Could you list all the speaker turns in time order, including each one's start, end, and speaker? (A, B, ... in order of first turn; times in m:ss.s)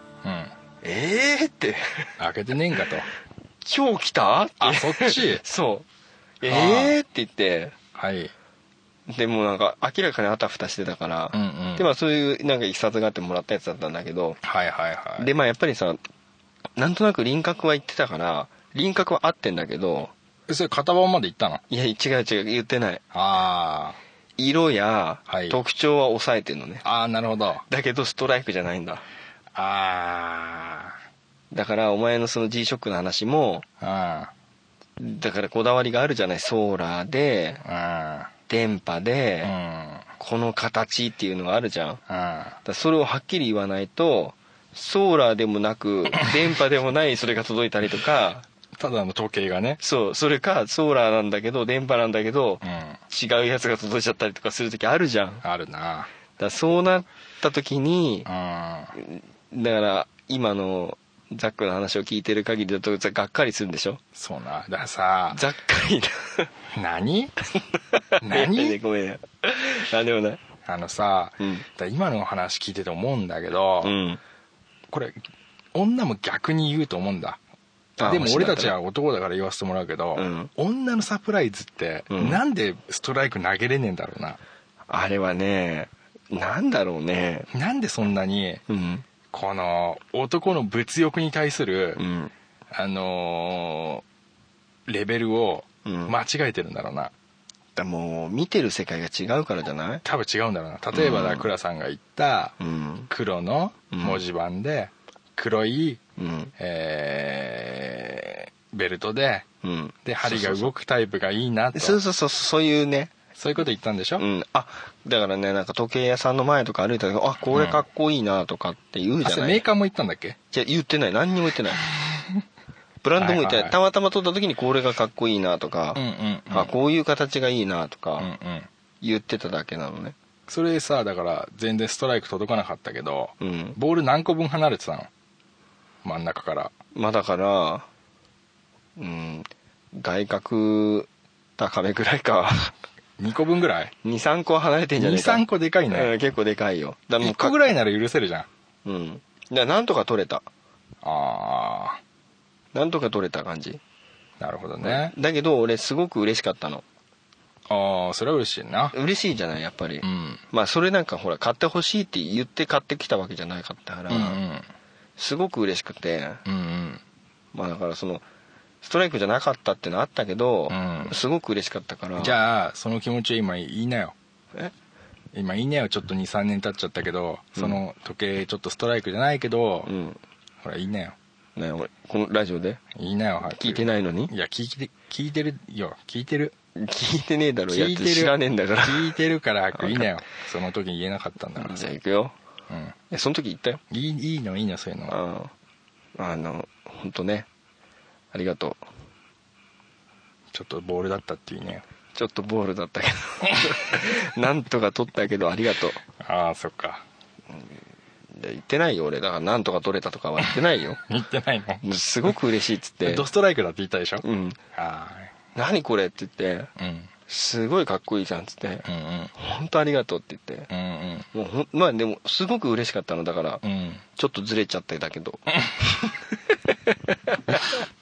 0:00.2-0:00.5 A
0:00.8-0:02.1 B
0:02.2-0:03.1 A
0:03.6-0:05.8 B
0:04.6-0:05.4 A
0:06.4-0:07.7 B
0:06.4-0:07.0 A
0:07.9-0:08.3 A
0:09.1-0:14.4 B
0:11.3-0:11.9 A
0:14.4-0:15.3 A
0:15.2-0:16.0 B
0:16.8-0:20.1 B
0:20.5-0:21.6 A
0:21.7-0:23.0 B
0:23.1-0:24.0 A
0:24.4-0:26.8 B
0:25.3-0:25.6 A
0:26.8-0:27.6 A
0:27.7-0:29.0 B
0:29.5-0:31.0 A
0:31.5-0:33.6 B
0:33.8-0:34.3 A
0:35.0-0:37.6 B
0:37.6-0:38.3 A
0:38.5-0:39.5 B
0:39.4-0:40.1 A
0:40.2-0:42.0 B
0:42.1-0:42.6 A
0:42.6-0:48.4 B
0:48.8-0:49.8 A
0:49.8-0:55.4 B
0:52.6-0:53.0 A
0:55.4-0:56.1 A
0:56.4-0:58.3 B
0:58.2-0:58.9 A
0:59.0-1:04.0 B
1:04.1-1:05.4 A
1:05.3-1:06.5 B
1:06.7-1:07.3 A
1:07.9-1:10.4 B
1:08.2-1:08.8 A
1:10.6-1:14.0 A
1:11.4-1:11.6 B
1:13.8-1:14.2 B
1:14.9-1:15.2 A
1:15.7-1:17.4 A
1:18.0-1:18.7 B
1:18.0-1:24.4 A
1:20.2-1:20.5 B
1:22.1-1:22.4 B
1:24.9-1:27.5 B
1:27.5-1:28.6 A
1:28.7-1:29.0 B
1:29.3-1:32.0 A
1:32.0-1:32.3 B
1:32.7-1:34.0 A
1:34.9-1:37.1 A
1:35.8-1:36.1 B
1:37.8-1:40.0 B
1:40.0-1:42.6 A
1:40.9-1:41.5 B
1:42.6-1:43.1 B
1:43.1-1:46.0 A
1:43.9-1:44.2 B
1:46.2-1:46.5 B
1:46.6-1:49.5 A
1:49.6-1:50.7 B
1:50.0-1:52.0 A
1:51.7-1:53.1 B
1:53.4-1:54.2 A
1:54.2-1:59.6 B
1:57.5-1:57.8 A
1:59.2-2:00.4 A
2:00.5-2:01.8 B
2:01.9-2:02.4 A
2:03.0-2:08.3 B
2:03.2-2:03.8 A
2:05.9-2:06.7 A
2:08.2-2:08.7 A
2:09.0-2:10.2 B
2:10.5-2:15.1 A
2:13.4-2:13.8 B
2:16.0-2:16.7 A
2:16.9-2:17.9 B
2:19.0-2:22.7 B
2:23.2-2:23.9 A
2:24.0-2:27.6 B
2:25.0-2:26.1 A
2:27.2-2:28.5 A
2:28.8-2:30.4 B
2:31.0-2:32.0 A
2:32.7-2:33.8 B
2:34.4-2:35.1 A
2:34.8-2:36.8 B
2:37.7-2:38.9 A
2:38.9-2:44.4 B
2:40.0-2:40.4 A
2:44.1-2:44.7 A
2:45.2-2:46.4 B
2:46.4-2:47.0 A
2:47.5-2:48.2 B
2:48.8-2:52.4 B
2:50.7-2:51.2 A
2:52.2-2:54.1 A
2:55.3-2:59.9 A
2:57.6-2:57.8 B
2:59.8-3:00.2 B
3:00.6-3:01.2 A
3:01.6-3:02.8 B
3:02.9-3:06.5 A
3:03.5-3:04.3 B
3:06.8-3:09.1 B
3:07.7-3:11.8 A
3:09.8-3:10.0 B
3:11.6-3:12.3 B
3:12.7-3:12.9 A
3:13.1-3:13.8 B
3:13.9-3:15.2 A
3:15.1-3:15.5 B
3:16.2-3:17.5 B
3:18.3-3:18.8 B
3:20.5-3:21.8 A
3:22.1-3:26.0 B
3:26.2-3:27.0 A
3:27.5-3:27.8 B
3:28.3-3:31.0 B
3:31.0-3:32.4 A
3:31.8-3:33.3 B
3:33.0-3:35.3 A
3:34.2-3:34.6 B
3:35.5-3:36.7 B
3:36.8-3:37.1 A
3:37.3-3:40.7 B
3:38.8-3:39.3 A
3:40.7-3:41.3 A
3:41.3-3:43.6 B
3:43.6-3:44.0 A
3:44.2-3:46.1 B
3:46.7-3:47.8 B